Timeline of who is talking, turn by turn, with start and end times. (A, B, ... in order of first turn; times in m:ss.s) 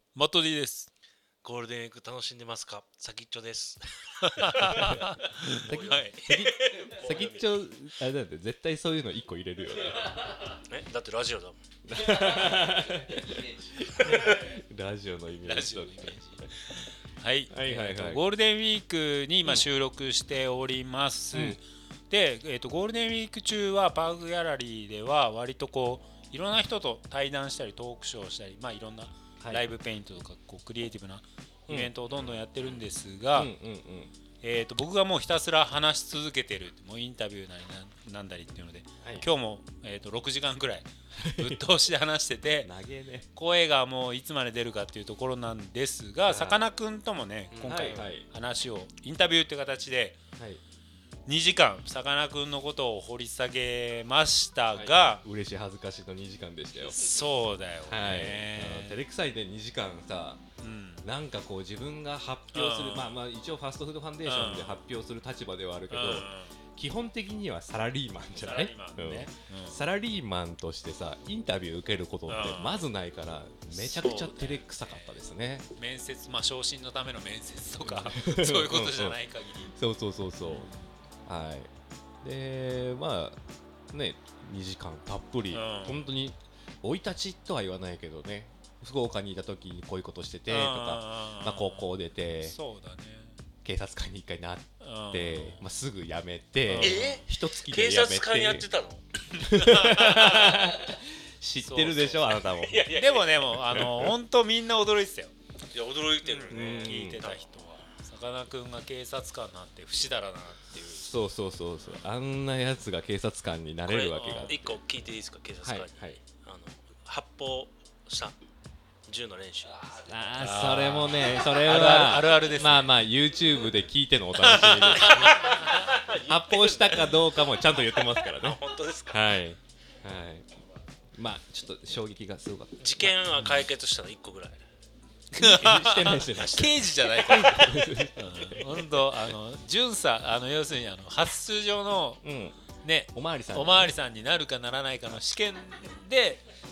0:00.2-0:00.9 A
0:01.4-0:05.0 B
0:04.2-0:06.4 A
0:05.6-0:10.2 C
0:05.7-0:07.5 B
0:10.6-0:11.6 B
0:11.9-0:16.5 C
0:14.0-0:14.3 B
0:15.4-0:33.5 A
0:17.5-0:18.2 C
0:21.3-0:21.6 C
0:29.4-0:29.6 C
0:31.7-0:31.9 C
0:33.3-0:34.1 C
0:34.4-0:42.7 A
0:39.0-0:39.3 C
0:41.2-0:41.6 C
0:42.6-0:43.3 C
0:43.4-0:50.2 A
0:46.2-0:46.6 C
0:47.5-0:47.8 B
0:47.6-0:48.2 C
0:51.3-0:55.2 A
0:54.7-0:57.1 C
0:56.9-0:59.0 A
0:57.9-1:00.4 C
1:00.6-1:01.0 A
1:01.0-1:15.7 C
1:02.5-1:03.2 A
1:04.2-1:04.8 A
1:05.9-1:06.6 A
1:08.4-1:09.8 A
1:12.3-1:12.9 A
1:13.7-1:15.2 A
1:15.8-1:19.7 A
1:17.8-1:19.2 C
1:19.7-1:20.7 C
1:20.4-1:20.9 A
1:21.2-1:21.7 C
1:22.2-1:23.4 C
1:23.9-1:32.6 C
1:25.5-1:26.1 A
1:30.5-1:33.4 A
1:33.6-1:38.7 C
1:34.8-1:35.6 A
1:36.7-1:37.2 A
1:36.8-1:39.0 B
1:39.4-1:42.9 C
1:39.4-1:40.6 A
1:41.6-1:45.3 A
1:42.4-1:43.6 B
1:43.6-1:44.1 C
1:45.7-1:47.5 B
1:46.2-1:51.1 A
1:46.5-1:47.2 C
1:50.9-1:54.7 C
1:53.8-1:58.4 B
1:54.1-1:54.6 A
1:55.6-1:56.2 C
1:59.0-2:00.3 B
2:00.0-2:10.4 C
2:00.4-2:02.9 A
2:04.4-2:05.9 A
2:05.1-2:09.3 B
2:11.1-2:13.1 C
2:12.8-2:14.6 B
2:15.3-2:22.2 A
2:15.3-2:19.3 C
2:22.2-2:22.6 C
2:22.8-2:26.4 A
2:23.1-2:23.9 C